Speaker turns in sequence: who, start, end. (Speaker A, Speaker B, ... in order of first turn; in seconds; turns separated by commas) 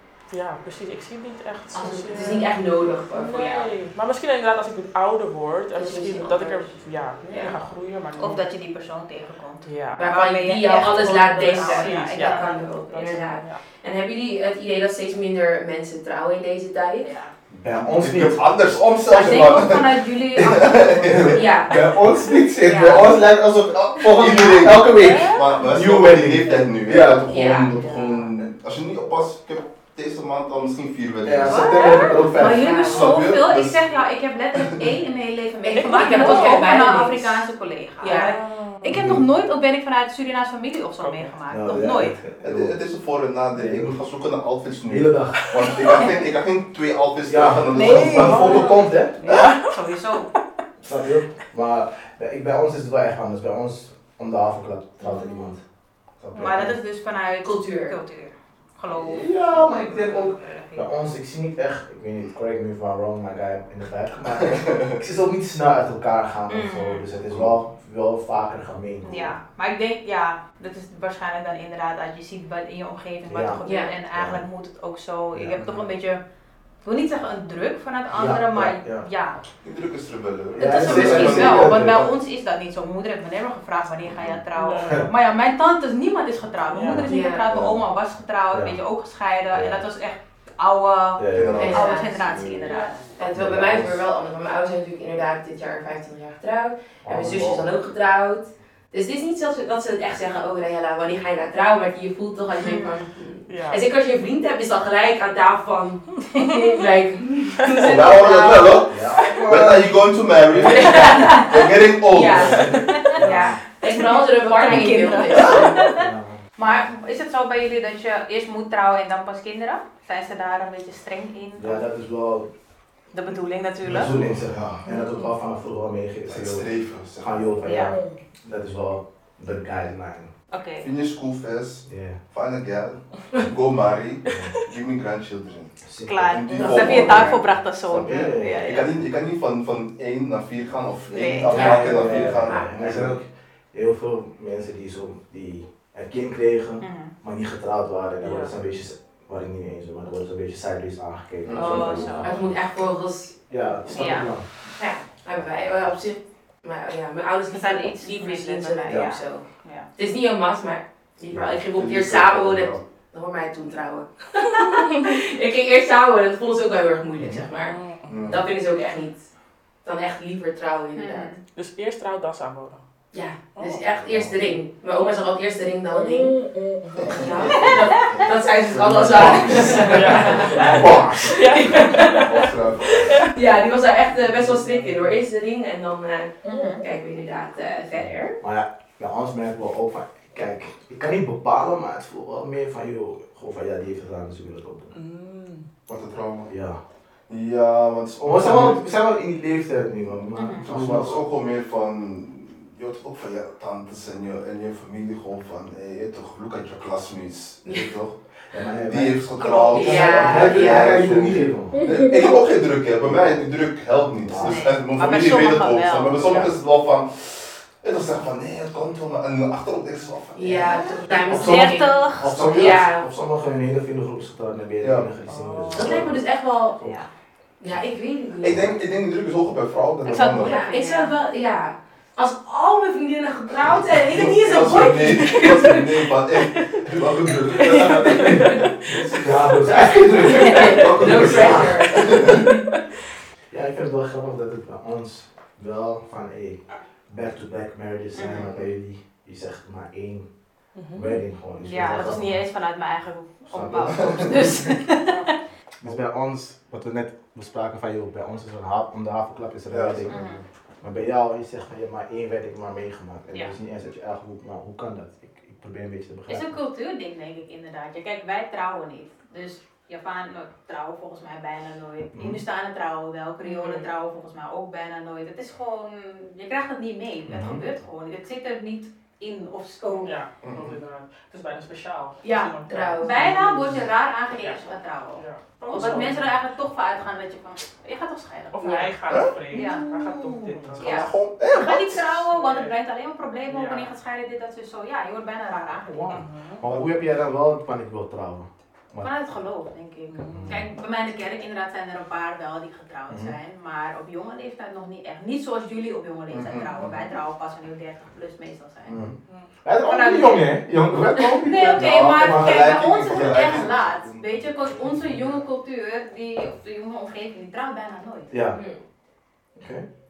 Speaker A: 0.3-2.5, Speaker B: 1.7-3.7, Speaker A: 3.1-8.4, Speaker B: 5.8-6.8, Speaker B: 7.3-7.5, Speaker C: 8.2-13.2, Speaker A: 9.7-10.0, Speaker B: 10.0-17.1, Speaker A: 11.5-13.6, Speaker C: 17.0-17.3, Speaker D: 17.5-21.6, Speaker E: 17.6-18.4, Speaker C: 19.1-21.6, Speaker B: 21.3-21.9, Speaker E: 21.6-28.5, Speaker B: 22.6-23.1, Speaker D: 23.7-33.9, Speaker A: 24.9-25.6, Speaker B: 27.3-28.2, Speaker E: 31.2-32.8, Speaker C: 31.4-42.2, Speaker B: 32.5-33.2, Speaker D: 34.5-34.8, Speaker B: 35.6-37.4, Speaker A: 35.8-36.7, Speaker B: 38.0-38.4, Speaker A: 38.0-38.9, Speaker E: 38.9-39.2, Speaker A: 41.0-41.3, Speaker E: 41.5-42.8, Speaker D: 41.7-48.7, Speaker E: 43.5-44.0, Speaker E: 44.9-45.4, Speaker A: 45.4-46.0, Speaker E: 47.3-49.2, Speaker C: 47.7-48.7, Speaker A: 48.2-49.7, Speaker B: 49.2-49.5, Speaker C: 49.3-50.3, Speaker E: 50.8-55.6, Speaker A: 55.0-55.5, Speaker D: 56.2-56.6, Speaker C: 56.4-60.9, Speaker E: 56.4-56.7, Speaker B: 57.4-58.0, Speaker E: 58.9-69.3, Speaker D: 64.5-65.0, Speaker C: 66.5-67.1, Speaker D: 67.3-67.5, Speaker C: 69.0-76.2, Speaker E: 73.3-74.4, Speaker B: 73.7-73.9, Speaker D: 75.5-75.9, Speaker C: 76.8-79.4, Speaker E: 78.1-79.1, Speaker D: 79.6-81.9, Speaker E: 80.6-82.1, Speaker C: 80.6-93.0, Speaker A: 84.5-85.1, Speaker A: 86.7-87.1, Speaker E: 86.8-87.8, Speaker B: 87.0-87.5, Speaker E: 89.5-89.8, Speaker E: 91.2-91.8, Speaker D: 91.3-92.7, Speaker B: 91.6-92.1, Speaker A: 92.6-93.1, Speaker B: 93.2-108.9, Speaker E: 93.3-94.0, Speaker E: 97.0-97.7, Speaker C: 102.6-103.0, Speaker A: 103.5-103.8, Speaker D: 107.8-113.3, Speaker E: 108.9-111.1, Speaker B: 110.7-115.9, Speaker C: 111.0-111.5, Speaker E: 112.4-113.6, Speaker C: 113.8-121.8, Speaker E: 116.0-116.4, Speaker E: 121.6-122.5, Speaker C: 123.1-124.2, Speaker E: 123.8-130.3, Speaker D: 123.9-124.8, Speaker D: 126.3-127.5, Speaker C: 127.6-128.0, Speaker C: 130.5-130.9, Speaker D: 130.8-143.2, Speaker E: 131.9-132.2, Speaker E: 134.3-134.6, Speaker E: 135.8-137.0, Speaker C: 136.1-138.9, Speaker B: 136.5-137.4, Speaker E: 138.0-138.7, Speaker C: 141.1-142.0, Speaker E: 141.4-152.6, Speaker B: 141.5-142.7, Speaker C: 146.8-147.1, Speaker A: 148.2-148.5, Speaker D: 151.5-151.9, Speaker B: 151.5-153.4, Speaker C: 151.6-152.5, Speaker E: 153.5-154.5, Speaker B: 153.9-154.3, Speaker C: 153.9-154.3, Speaker B: 154.8-167.8, Speaker C: 157.5-159.9, Speaker E: 158.9-159.1, Speaker D: 161.3-162.8, Speaker A: 167.6-168.2, Speaker D: 168.1-168.5, Speaker B: 168.3-169.3, Speaker B: 169.8-171.3, Speaker C: 170.9-171.4, Speaker A: 171.5-172.8, Speaker B: 173.1-176.4, Speaker A: 173.6-173.8, Speaker D: 174.0-174.3, Speaker D: 177.0-181.2, Speaker B: 177.1-182.5, Speaker E: 179.0-181.4, Speaker A: 179.8-183.3, Speaker D: 182.0-183.3, Speaker B: 183.2-188.4, Speaker C: 186.4-186.8, Speaker E: 188.4-194.9, Speaker A: 194.9-195.7, Speaker D: 195.9-196.5, Speaker E: 196.5-196.8, Speaker D: 197.3-198.8, Speaker E: 198.2-201.2, Speaker C: 200.3-200.7, Speaker D: 200.6-208.2, Speaker B: 207.7-207.9, Speaker E: 208.5-211.8, Speaker D: 208.7-221.7, Speaker C: 209.4-210.3, Speaker B: 209.7-211.1, Speaker E: 214.2-214.6, Speaker C: 214.4-216.5, Speaker B: 220.3-222.0, Speaker E: 221.3-226.2, Speaker C: 221.4-222.4, Speaker D: 222.3-222.8, Speaker B: 222.5-223.1, Speaker D: 224.8-225.1, Speaker A: 225.3-226.1, Speaker B: 225.7-226.8, Speaker C: 226.8-227.1, Speaker B: 227.6-228.8, Speaker D: 228.4-230.6, Speaker C: 230.0-231.2, Speaker B: 230.3-236.7, Speaker D: 233.7-239.5, Speaker B: 237.5-238.7, Speaker A: 238.0-238.6, Speaker E: 238.9-242.3, Speaker D: 240.1-242.5, Speaker B: 240.2-242.6, Speaker C: 240.4-240.7, Speaker E: 243.5-250.3, Speaker C: 248.2-248.5, Speaker D: 248.4-248.7, Speaker A: 250.8-251.2, Speaker E: 250.9-252.4, Speaker C: 251.6-255.3, Speaker E: 253.5-254.8, Speaker D: 253.6-254.7, Speaker A: 255.0-255.3, Speaker E: 255.8-260.2, Speaker D: 259.7-260.4, Speaker C: 260.1-260.4, Speaker E: 260.8-266.6, Speaker C: 266.3-280.2, Speaker E: 272.1-272.4, Speaker A: 273.4-273.9, Speaker E: 277.3-277.6, Speaker A: 280.0-283.7, Speaker D: 280.4-280.7, Speaker C: 282.2-288.9, Speaker B: 282.7-283.3, Speaker A: 284.4-286.3, Speaker A: 288.5-291.1, Speaker B: 288.6-288.9, Speaker D: 289.1-292.2, Speaker C: 289.5-289.9, Speaker C: 290.8-296.2, Speaker A: 292.3-292.7, Speaker A: 293.5-293.9, Speaker E: 295.9-299.1, Speaker A: 296.1-296.6, Speaker C: 299.0-309.0, Speaker A: 300.1-300.5, Speaker E: 300.3-300.6, Speaker E: 303.1-303.4, Speaker D: 306.3-307.1, Speaker E: 308.9-313.6, Speaker C: 309.9-310.5, Speaker C: 311.4-318.3, Speaker D: 311.5-315.2, Speaker E: 318.3-318.6, Speaker B: 318.5-318.8, Speaker E: 319.6-319.9